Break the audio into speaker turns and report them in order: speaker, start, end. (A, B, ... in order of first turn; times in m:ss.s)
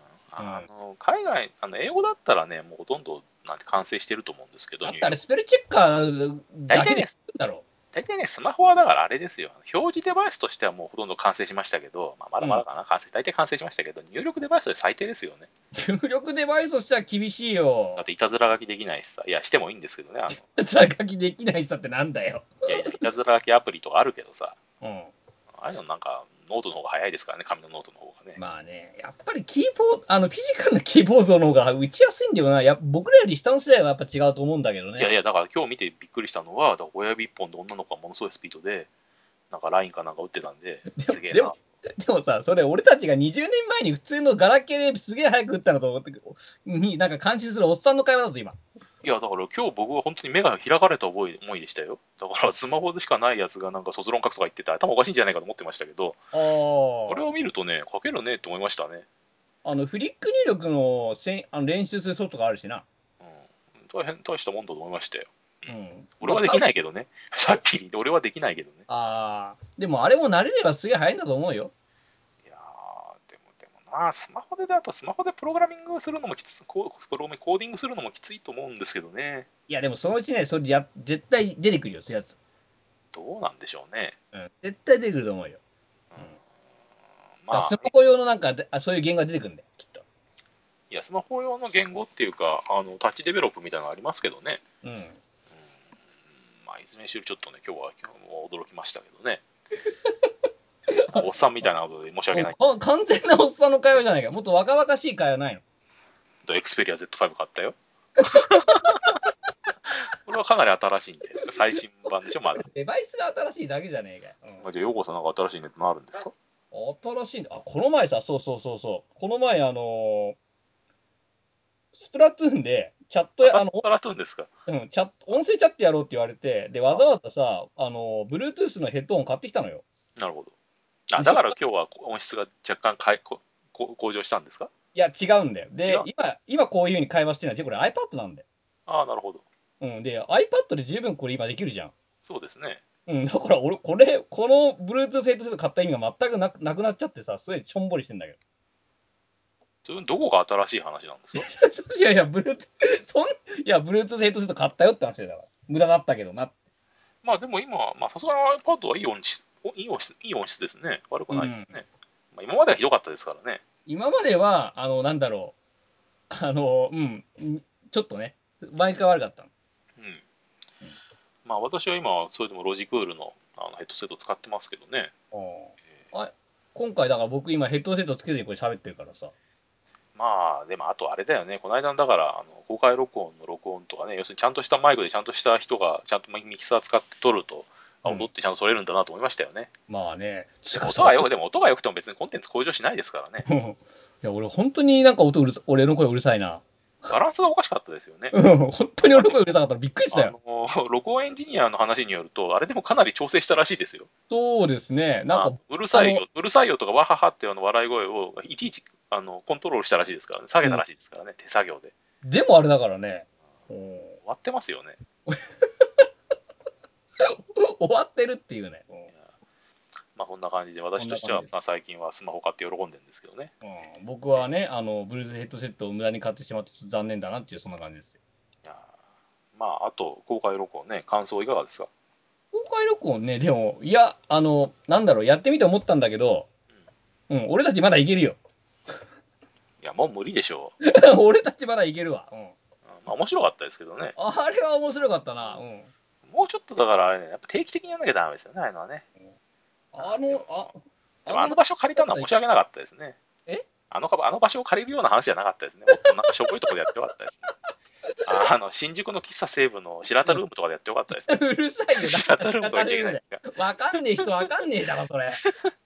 0:00.3-0:05.2 A
0:00.4-0:00.7 B
0:04.8-0:07.6 B
0:06.7-0:07.2 A
0:07.9-0:15.5 A
0:15.7-0:18.0 B
0:18.0-0:20.4 A
0:20.4-0:23.0 B
0:22.7-0:24.6 A
0:24.8-0:25.1 B
0:25.5-0:28.4 A
0:28.4-0:35.1 B
0:35.0-0:38.9 A
0:39.5-0:41.6 A
0:40.9-0:48.6 B
0:49.0-0:56.2 A
0:56.3-0:57.2 B
0:57.1-0:59.1 A
0:59.6-1:02.9 B
1:03.2-1:08.8 A
1:05.7-1:06.6 B
1:08.9-1:11.7 B
1:12.4-1:19.5 A
1:19.7-1:22.4 B
1:23.1-1:24.2 A
1:24.3-1:25.6 B
1:27.4-1:27.9 A
1:27.5-1:30.0 B
1:30.9-1:34.6 A
1:34.8-1:35.2 B
1:36.6-1:39.4 A
1:39.9-1:40.3 B
1:40.9-1:41.3 B
1:41.1-1:42.6 A
1:42.3-1:45.6 B
1:46.4-1:47.8 A
1:48.2-1:49.1 B
1:48.3-1:49.0 A
1:49.9-1:52.6 A
1:52.5-1:54.7 B
1:54.6-1:56.3 A
1:56.7-2:00.4 B
2:01.9-2:03.8 B
2:03.4-2:04.5 A
2:04.7-2:09.8 B
2:10.2-2:10.5 A
2:11.1-2:14.7 A
2:11.2-2:11.6 B
2:14.9-2:18.4 B
2:18.9-2:19.4 A
2:19.8-2:21.9 B
2:22.2-2:22.8 A
2:23.1-2:28.4 B
2:29.8-2:31.5 A
2:31.3-2:36.5 B
2:37.2-2:43.6 A
2:41.3-2:41.7 B
2:43.9-2:45.6 B
2:46.3-2:49.5 B
2:50.0-2:50.2 A
2:51.4-2:55.1 A
2:55.3-2:59.3 B
3:00.2-3:09.7 A
3:09.9-3:11.3 B
3:10.8-3:13.5 A
3:13.5-3:17.1 B
3:17.1-3:18.4 A
3:18.3-3:20.4 B
3:19.0-3:19.5 A
3:20.1-3:24.1 A
3:24.3-3:26.2 B
3:25.3-3:31.9 A
3:32.2-3:34.2 B
3:34.2-3:35.0 A
3:35.3-3:36.1 B
3:37.2-3:39.1 B
3:40.1-3:43.5 A
3:41.0-3:41.5 B
3:43.6-3:48.2 B
3:48.6-3:49.0 A
3:49.6-3:51.9 A
3:52.5-3:56.5 B
3:57.3-3:58.4 B
3:59.8-4:00.8 A
4:00.8-4:02.6 B
4:02.9-4:04.2 A
4:04.2-4:05.9 B
4:06.2-4:09.0 A
4:09.9-4:12.3 B
4:10.0-4:10.7 A
4:11.3-4:13.2 A
4:13.9-4:17.5 A
4:15.9-4:16.5 B
4:18.3-4:21.4 A
4:21.1-4:25.4 B
4:22.0-4:24.2 A
4:25.4-4:25.7 A